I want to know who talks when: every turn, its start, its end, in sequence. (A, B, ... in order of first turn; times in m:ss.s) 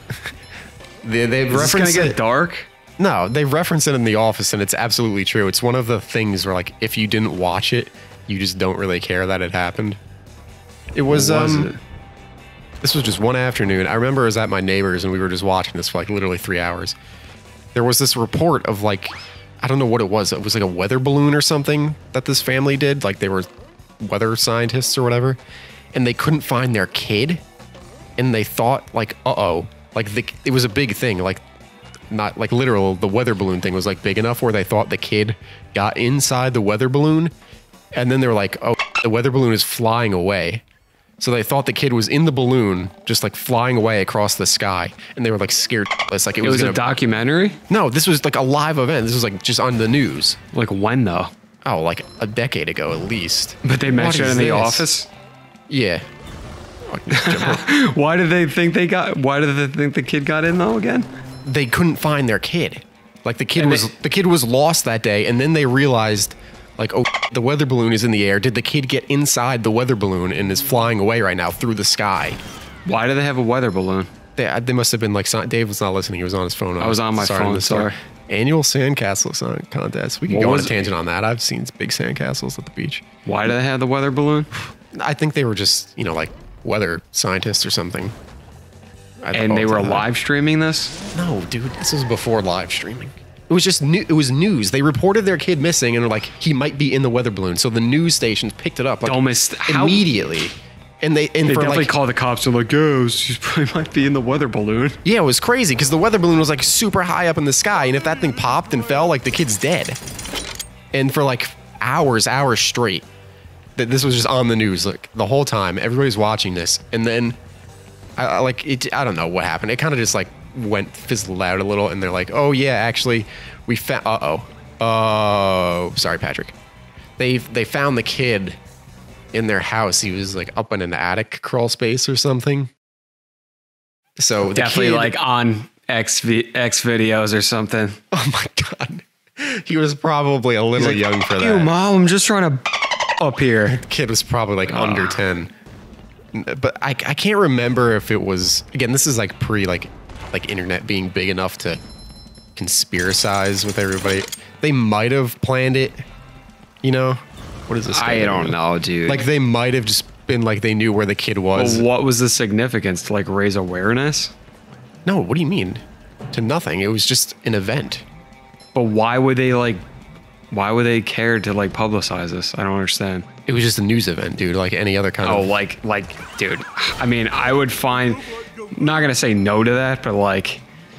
0:01.0-0:02.2 A
0:01.5-0:02.7 B
0:03.0-0:10.0 A
0:11.0-0:11.7 A
0:11.1-0:11.8 B
0:12.8-0:17.0 A
0:17.7-0:23.5 A
0:24.0-0:25.4 A
0:25.9-0:27.4 A
0:28.2-0:31.4 A
0:32.1-0:37.3 A
0:38.0-0:40.6 A
0:41.2-0:46.8 A
0:46.4-0:47.6 B
0:47.7-0:50.4 A
0:50.5-0:51.3 B
0:51.6-0:54.9 A
0:53.6-0:55.1 B
0:55.7-0:56.0 A
0:56.9-0:57.7 A
0:57.1-1:01.1 B
1:01.4-1:12.4 A
1:03.6-1:03.9 B
1:12.8-1:14.1 B
1:14.4-1:23.0 A
1:16.8-1:18.0 B
1:20.3-1:20.9 B
1:23.2-1:24.5 B
1:24.9-1:28.1 A
1:29.2-1:30.1 A
1:29.3-1:30.9 B
1:31.1-1:41.9 A
1:39.0-1:40.1 B
1:41.4-1:45.0 B
1:45.0-1:50.0 A
1:50.9-1:53.1 A
1:53.8-1:57.4 A
1:58.2-2:06.6 A
2:07.2-2:08.6 A
2:09.3-2:12.7 A
2:14.2-2:15.2 A
2:14.5-2:18.0 B
2:18.1-2:21.7 A
2:20.8-2:22.6 B
2:23.2-2:23.8 B
2:23.6-2:25.5 A
2:24.7-2:25.3 B
2:26.3-2:31.8 A
2:32.6-2:36.0 A
2:36.8-2:41.9 A
2:37.9-2:39.2 B
2:41.6-2:44.3 B
2:45.1-2:48.0 A
2:48.8-2:49.8 B
2:50.5-2:53.2 B
2:53.5-2:55.6 A
2:55.2-3:00.6 B